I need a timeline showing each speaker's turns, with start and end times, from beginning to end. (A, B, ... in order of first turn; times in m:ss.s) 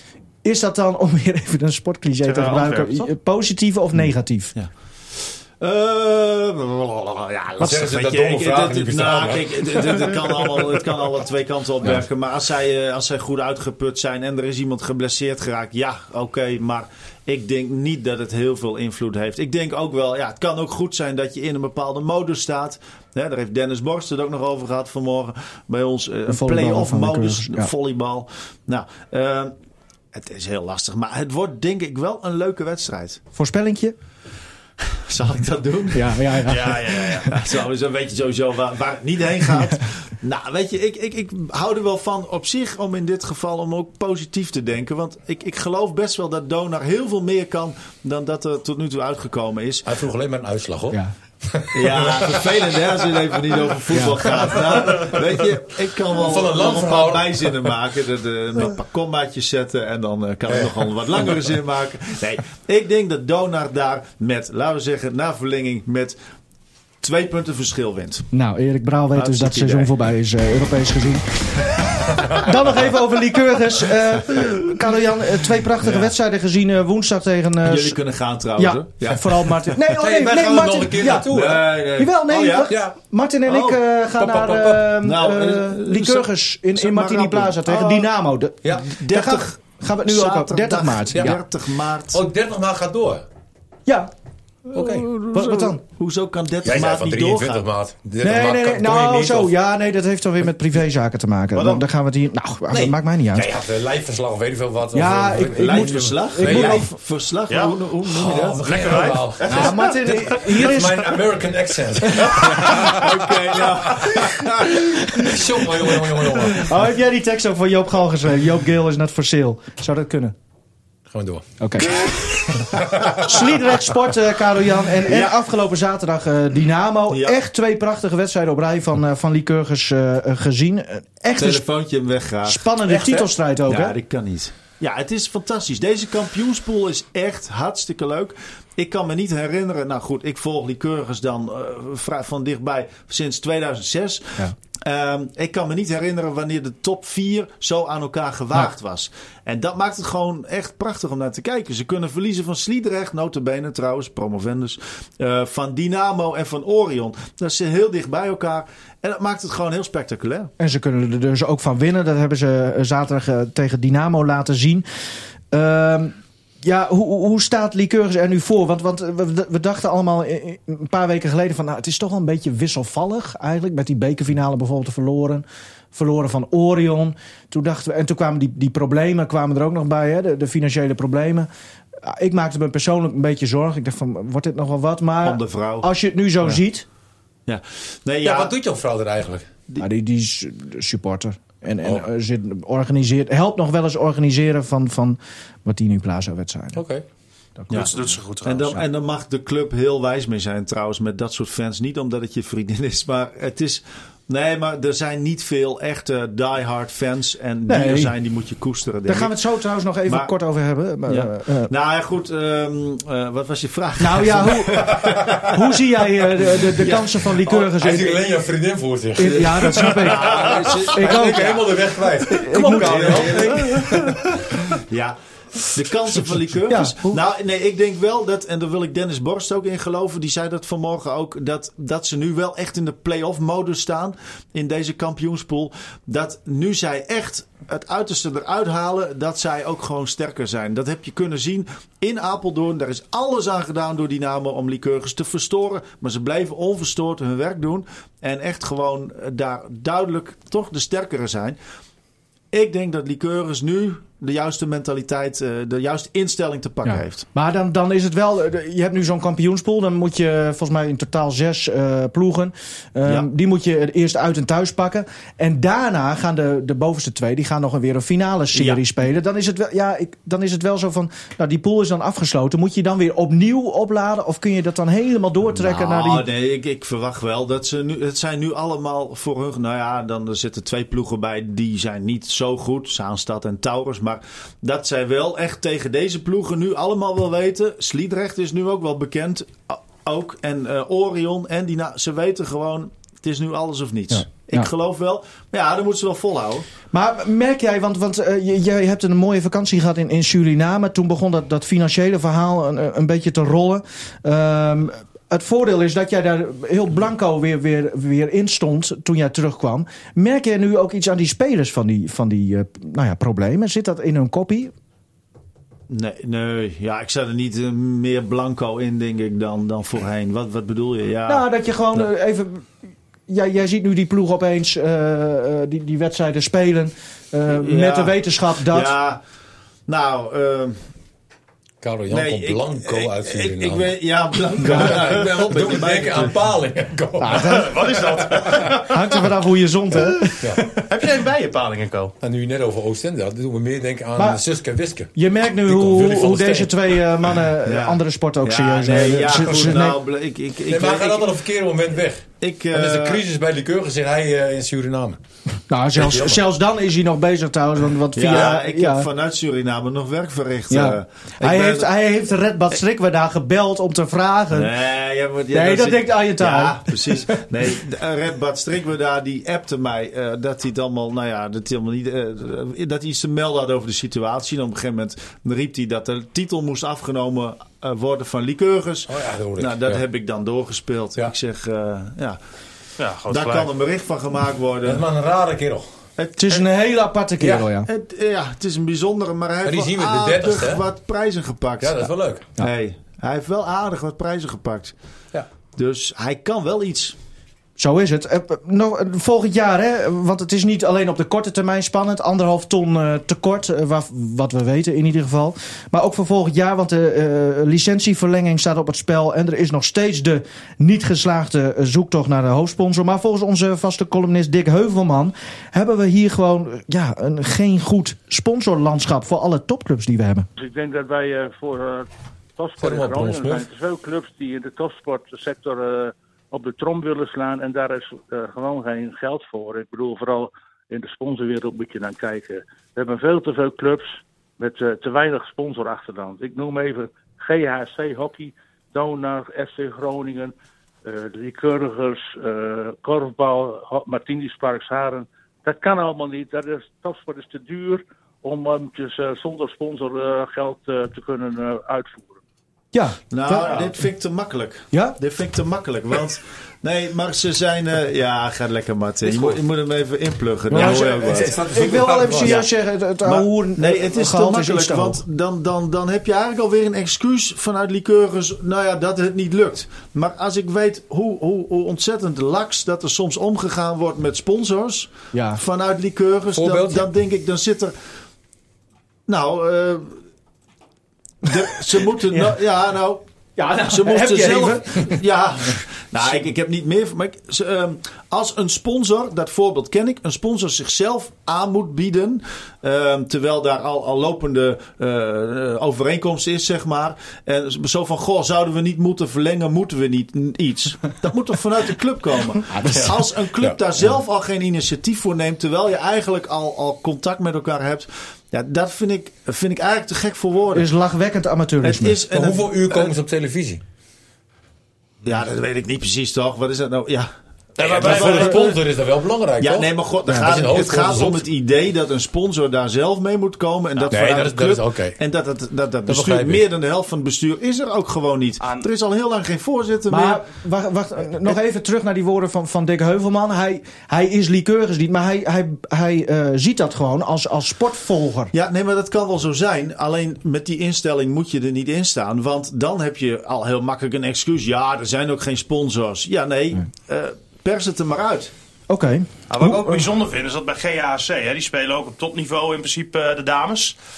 0:00.4-0:04.5 A
0:02.2-0:03.1 B
0:05.6-0:29.5 C
0:07.6-0:10.8 D
0:26.3-0:27.7 A
0:30.1-0:33.2 C
0:33.3-0:34.0 A
0:35.1-0:36.5 C
0:35.9-0:37.2 A
0:36.5-0:37.3 B
0:37.1-0:49.9 C
0:49.8-0:53.2 D
0:51.7-1:06.2 C
0:53.9-0:54.2 A
0:54.2-0:55.2 D
0:56.1-0:57.8 D
1:00.5-1:00.9 D
1:07.0-1:08.3 C
1:08.3-1:11.3 A
1:09.2-1:09.9 C
1:12.2-1:18.0 A
1:15.8-1:16.1 C
1:17.6-1:19.8 C
1:18.6-1:31.4 A
1:19.9-1:21.7 D
1:21.3-1:22.8 C
1:22.7-1:23.0 D
1:23.5-1:23.8 C
1:24.2-1:24.9 D
1:25.0-1:28.1 C
1:28.8-1:32.2 C
1:31.1-1:31.4 D
1:32.1-1:33.2 D
1:34.7-1:37.6 C
1:34.7-1:35.1 D
1:35.3-1:35.8 A
1:36.6-1:39.5 D
1:38.2-1:43.5 A
1:41.6-1:41.8 B
1:42.7-1:46.9 D
1:44.9-1:47.0 A
1:45.5-1:48.6 C
1:47.5-1:47.8 B
1:48.1-1:56.7 D
1:48.6-1:49.9 B
1:49.5-1:51.2 A
1:52.0-1:52.9 A
1:52.4-1:56.6 C
1:56.5-2:00.4 A
2:01.1-2:03.8 D
2:01.6-2:02.0 A
2:02.2-2:03.4 C
2:03.2-2:11.6 A
2:05.0-2:05.4 C
2:07.1-2:07.4 C
2:11.4-2:40.5 C
2:12.5-2:14.0 A
2:40.6-2:44.8 A
2:45.5-3:01.5 A
3:02.0-3:06.8 A
3:05.2-3:05.9 C
3:07.5-3:08.5 C
3:08.2-3:09.5 D
3:09.8-3:16.8 A
3:16.7-3:17.0 D
3:17.6-3:18.1 A
3:17.7-3:18.8 B
3:18.4-3:29.3 C
3:27.7-3:28.1 A
3:29.1-3:31.7 A
3:31.1-3:35.6 C
3:34.0-3:34.9 A
3:34.9-3:35.4 D
3:35.5-3:38.2 A
3:36.4-3:37.3 C
3:37.4-3:44.4 D
3:39.2-3:41.6 A
3:39.3-3:41.8 C
3:42.3-3:44.1 C
3:42.3-3:43.6 A
3:44.8-4:11.6 C
3:46.7-3:47.2 A
4:12.5-4:17.2 C
4:16.8-4:36.3 A
4:28.5-4:28.8 C
4:35.5-4:56.7 C
4:54.1-4:54.7 A
4:56.9-5:14.7 A
5:15.9-5:21.4 C
5:21.3-5:22.7 A
5:23.3-5:28.9 A
5:27.5-5:29.2 C
5:29.9-5:30.8 C
5:31.8-5:34.0 D
5:32.1-5:36.4 C
5:34.6-5:38.8 D
5:37.2-5:37.8 A
5:37.3-5:39.2 B
5:38.7-5:40.8 A
5:40.2-5:42.2 B
5:42.2-5:46.9 D
5:44.2-5:44.4 A
5:45.2-5:50.0 A
5:47.6-5:51.3 C
5:50.7-5:55.2 D
5:52.4-5:53.2 C
5:55.7-5:59.1 A
5:56.0-5:56.4 D
5:58.2-6:01.9 C
6:00.7-6:04.7 A
6:04.5-6:22.4 C
6:05.5-6:07.4 A
6:19.1-6:20.0 D
6:23.0-6:23.7 B
6:23.3-6:25.0 C
6:24.8-6:25.9 D
6:26.2-6:26.6 C
6:26.4-6:27.9 A
6:27.4-6:27.7 D
6:27.8-6:34.9 C
6:29.6-6:30.8 D
6:31.8-6:32.5 D
6:35.8-6:37.2 C
6:37.8-7:00.5 A
7:00.6-7:32.4 E
7:02.8-7:03.7 D
7:32.9-7:33.9 A
7:33.3-7:41.6 C
7:34.9-7:35.2 A
7:39.2-7:39.6 D
7:40.7-7:45.2 A
7:40.7-7:42.7 D
7:42.3-7:42.7 C
7:43.2-7:57.9 C
7:55.3-7:55.6 A
7:56.5-7:57.1 D
7:59.3-8:00.1 C
8:01.4-8:03.2 C
8:03.6-8:05.2 A
8:03.9-8:30.9 C
8:22.7-8:23.1 A
8:30.7-8:32.2 A
8:31.8-8:33.1 C
8:32.3-8:33.8 D
8:35.2-8:38.8 C
8:37.8-8:38.6 B
8:37.8-8:41.5 D
8:39.6-8:50.4 C
8:44.0-8:45.2 D
8:46.1-8:46.7 D
8:48.6-8:48.9 B
8:50.1-8:58.5 A
8:58.5-9:08.5 C
9:08.9-9:10.0 A
9:09.5-9:14.0 B